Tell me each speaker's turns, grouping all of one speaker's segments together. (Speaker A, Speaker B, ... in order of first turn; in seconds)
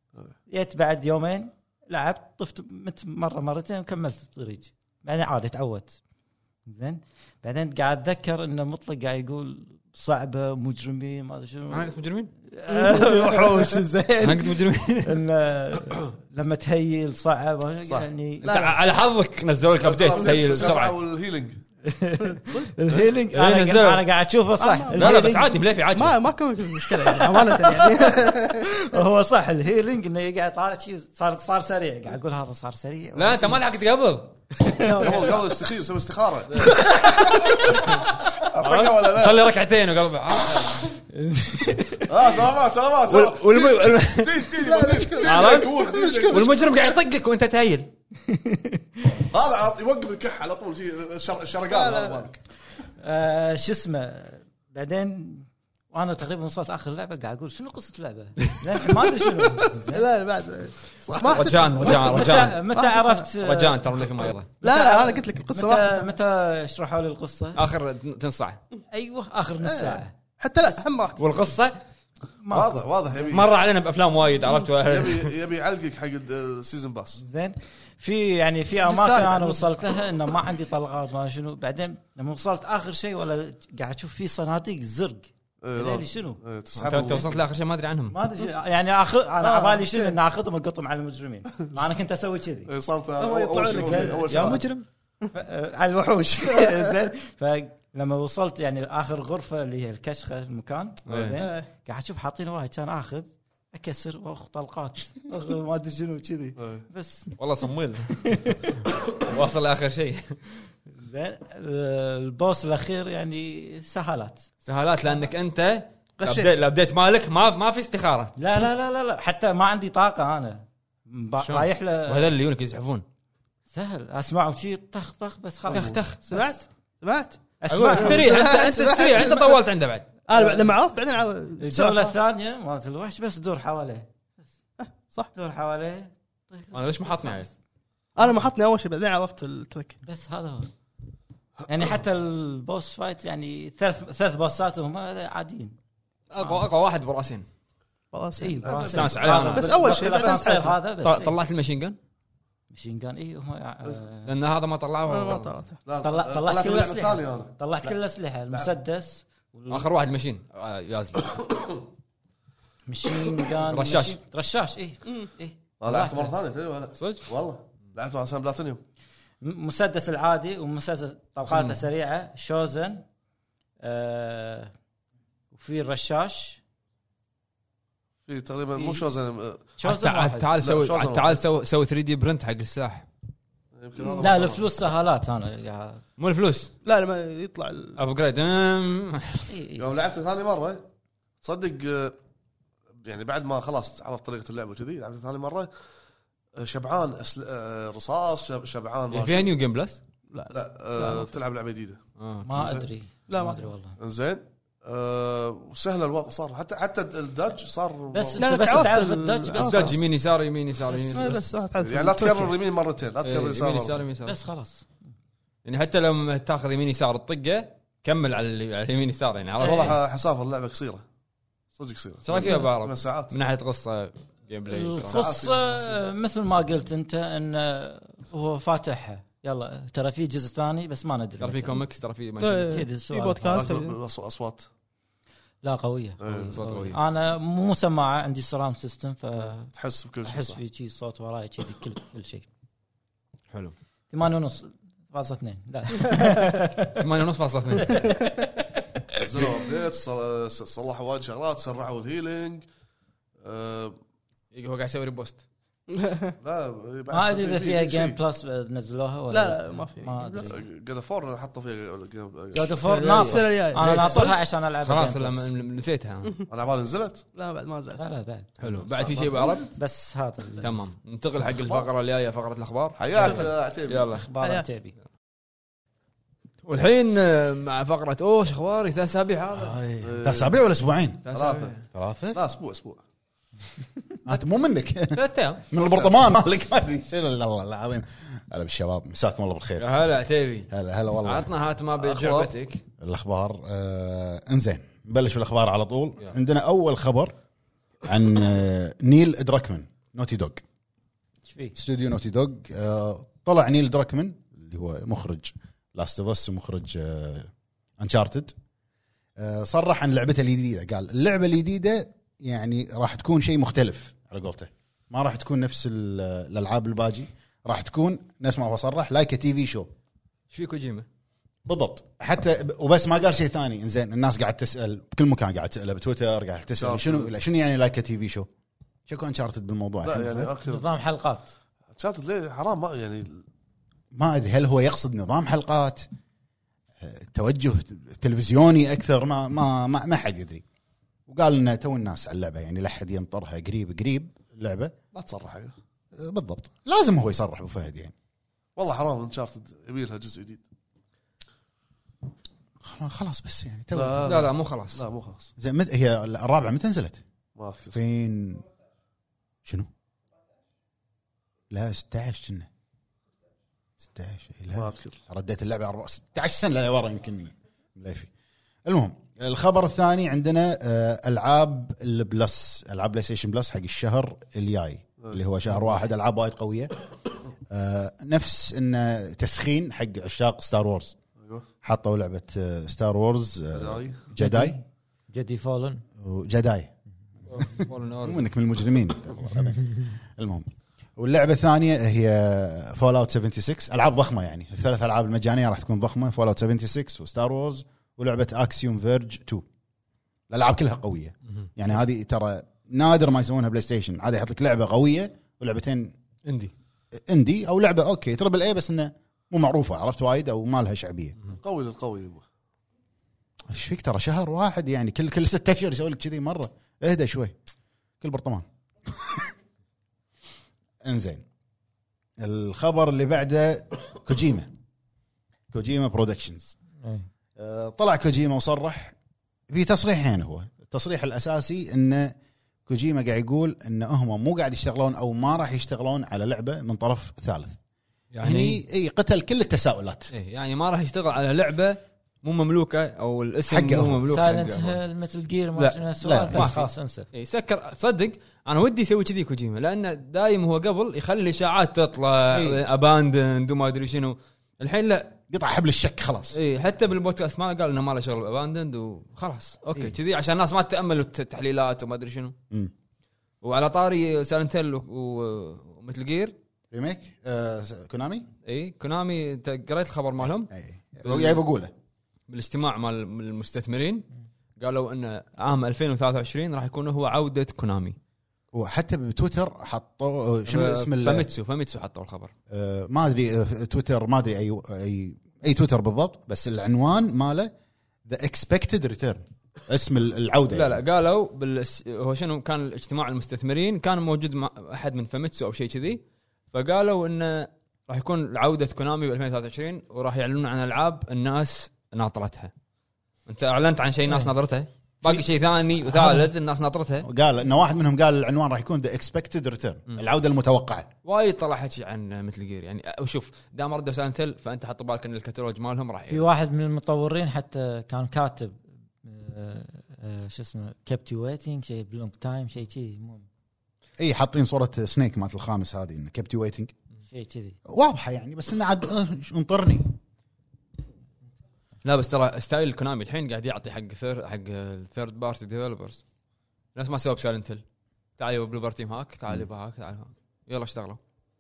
Speaker A: 0.5-6.0, 6.7-11.9, 12.5-18.8, 21.8-25.5, 27.2-33.6, 34.6-35.3, 41.1-42.1, 48.2-48.9, 53.0-60.0, 61.8-64.0, 64.6-67.6, 68.9-70.1, 72.4-73.3, 77.2-86.4, 88.1-92.7, 93.6-94.8, 95.3-107.4, 108.2-108.8, 111.0-114.5, 118.4-122.3, 123.7-126.6, 127.6-129.2, 130.3-130.7, 131.6-134.1, 135.3-137.5, 140.0-140.7, 141.7-145.8, 148.4-151.3, 152.7-154.3, 156.0-159.9, 162.9-166.3, 169.4-173.0, 173.8-174.7, 175.5-176.6, 179.8-180.5, 184.2-186.0, 189.5-189.9, 202.4-204.0, 208.1-210.1, 214.2-214.8, 219.6-219.9, 224.7-231.8, 232.6-233.8, 235.6-239.7, 240.2-242.4, 244.1-247.0, 247.8-248.8, 257.1-260.6, 262.5-265.5, 268.0-270.7, 273.1-273.5, 274.0-274.9, 301.5-301.8, 330.7-331.5, 384.4-386.0, 427.0-427.3, 444.3-447.3, 516.3-523.5, 527.3-527.8
Speaker B: 11.7-12.3, 14.2-15.2, 18.4-20.9, 23.3-24.0, 24.9-26.2, 33.1-34.3, 38.6-40.9, 43.1-47.9, 61.3-62.6, 63.4-64.5, 67.5-68.6, 71.2-71.8, 73.2-75.3, 86.8-88.2, 94.3-94.8, 101.1-101.4, 107.4-108.3, 109.1-110.4, 114.6-118.3, 121.4-123.0, 125.7-126.2, 127.7-130.1, 136.7-137.5, 146.3-147.4, 148.9-150.4, 151.0-152.0, 154.2-155.6, 159.7-161.4, 163.6-164.2, 167.0-167.2, 171.4-171.8, 179.8-183.1, 186.2-186.7, 188.0-189.5, 199.1-200.0, 202.2-202.7, 209.6-211.6, 213.2-214.4, 215.6-220.0, 222.2-225.3, 231.4-232.8, 236.5-237.0, 246.9-248.2, 254.5-255.4, 262.9-266.4, 268.6-269.7, 270.6-274.2, 276.6-279.8, 281.2-281.8, 285.1-285.6, 289.8-290.7, 291.2-292.8, 320.5-321.1, 354.2-355.0, 387.5-388.4, 406.4-406.7, 438.3-438.8, 440.3-445.0, 445.8-455.4, 456.5-462.5, 463.6-466.5, 468.6-470.7, 471.2-471.6, 472.5-474.3, 474.8-478.2, 480.6-482.5, 490.7-496.2, 496.7-502.7, 503.4-507.3, 511.2-516.5, 532.0-536.2, 536.9-537.8, 538.4-541.2
Speaker C: 12.8-13.7, 24.6-25.2, 25.9-28.7, 34.8-35.4, 44.6-46.5, 51.7-52.2, 59.9-63.2, 64.6-66.0, 69.6-71.2, 78.8-79.7, 89.4-90.1, 93.2-94.5, 101.4-101.7, 116.2-116.5, 126.3-127.4, 127.9-129.0, 130.3-132.1, 134.8-135.3, 138.2-140.0, 148.1-150.8, 155.1-155.8, 186.8-188.0, 200.3-201.4, 203.3-203.7, 208.4-209.9, 211.1-212.5, 232.4-234.0, 255.9-256.3, 259.3-260.5, 263.1-264.3, 267.3-268.0
Speaker D: 19.8-21.6, 35.0-39.5, 42.1-46.6, 49.1-52.4, 61.0-61.6, 72.5-73.5, 74.8-77.2, 85.6-87.4, 92.7-94.7, 106.6-106.8, 125.7-126.0, 128.8-129.4, 148.6-149.5, 155.8-157.9, 165.8-168.8, 178.2-179.6, 180.6-181.4, 183.7-184.9, 189.8-190.8, 191.4-192.2, 193.0-195.7, 196.5-199.5, 200.5-202.0, 202.5-202.8, 204.0-208.8, 211.8-214.0, 219.6-221.0, 221.7-223.3, 225.0-225.9, 233.5-234.7, 236.2-236.6, 239.7-240.6, 249.2-252.7, 253.4-254.0, 256.4-258.2, 260.5-262.8, 266.5-267.2, 271.5-271.9, 273.0-274.1, 280.0-280.6, 281.3-281.7, 282.3-283.0, 292.0-292.5, 326.8-327.3, 330.0-330.9, 331.9-333.4, 345.1-345.7, 348.8-350.6, 353.9-355.5, 357.6-358.0, 364.7-365.2, 381.4-381.6, 383.7-384.2, 411.6-412.4
Speaker E: 279.5-281.2, 281.9-282.4, 284.2-290.1, 290.7-291.5, 293.0-297.3, 298.0-300.6, 301.8-308.5, 309.4-319.9, 321.6-328.5, 329.1-330.5, 334.1-336.1, 337.0-340.6, 341.3-344.9, 346.2-348.1, 352.8-354.3, 355.6-357.2, 357.9-358.6, 361.7-362.7, 364.0-368.3, 368.9-376.9, 377.7-381.1, 381.8-384.8, 386.2-386.9, 387.5-399.6, 400.5-406.1, 407.2-411.4, 413.7-417.5, 418.2-419.5, 421.0-421.4, 422.4-424.7, 425.7-426.8, 427.6-429.1, 429.7-432.4, 432.9-437.8, 438.4-440.3, 443.7-444.2, 446.2-446.7, 452.5-452.8, 455.5-456.6, 466.9-468.5, 470.4-471.9, 478.7-481.5, 482.7-487.7, 488.2-491.0, 506.1-506.4, 507.2-511.1, 524.2-526.9, 527.9-530.1